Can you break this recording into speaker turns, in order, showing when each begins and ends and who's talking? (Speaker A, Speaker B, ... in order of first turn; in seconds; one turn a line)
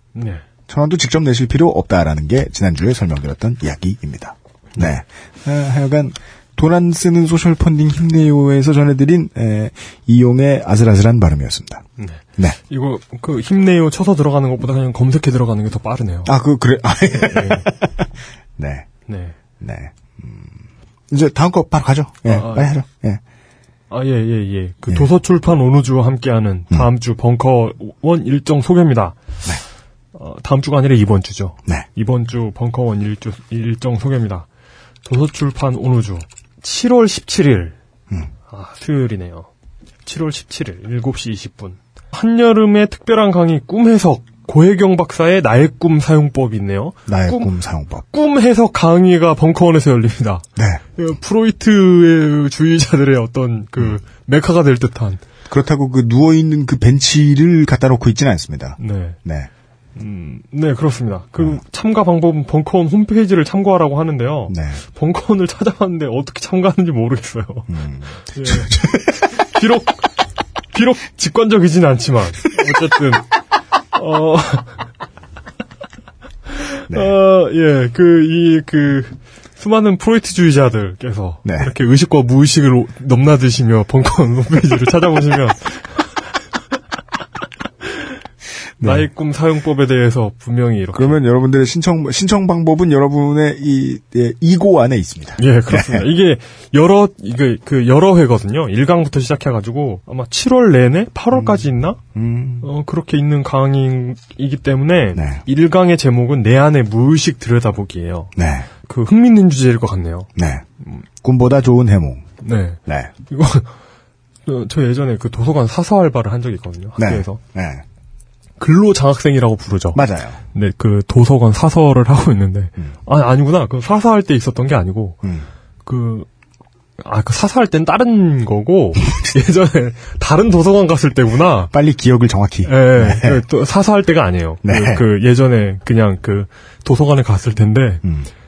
Speaker A: 0.1-0.4
Speaker B: 0.7-11.8
Speaker A: 12.0-16.3
Speaker B: 16.2-18.9
Speaker A: 17.1-17.7
Speaker A: 19.1-19.4
Speaker B: 19.6-20.6
Speaker B: 21.1-23.2
Speaker A: 22.2-22.7
Speaker A: 23.9-29.2
Speaker A: 30.1-34.5
Speaker A: 35.0-37.8
Speaker A: 38.5-39.5
Speaker A: 40.0-47.5
Speaker B: 47.1-48.0
Speaker A: 48.1-55.2
Speaker B: 50.5-50.8
Speaker B: 55.5-59.5
Speaker A: 58.8-59.2
Speaker A: 60.0-67.7
Speaker B: 64.5-64.8
Speaker B: 67.7-69.2
Speaker A: 68.3-70.0
Speaker A: 70.7-73.3
Speaker A: 73.9-74.8
Speaker A: 76.6-85.9
Speaker B: 76.9-77.1
Speaker B: 81.4-81.7
Speaker B: 88.8-89.1
Speaker A: 88.8-91.2
Speaker B: 90.9-96.1
Speaker A: 95.4-102.0
Speaker B: 101.3-102.7
Speaker A: 102.6-108.3
Speaker B: 105.1-105.4
Speaker B: 108.3-108.7
Speaker A: 108.8-110.3
Speaker B: 110.3-110.7
Speaker B: 111.2-112.2
Speaker A: 112.4-113.7
Speaker B: 112.8-113.1
Speaker A: 114.5-117.4
Speaker B: 117.0-117.8
Speaker A: 118.6-125.2
Speaker B: 119.9-120.4
Speaker A: 125.8-126.3
Speaker A: 127.0-131.7
Speaker B: 131.7-133.4
Speaker A: 132.6-138.0
Speaker B: 134.6-135.1
Speaker B: 138.0-138.3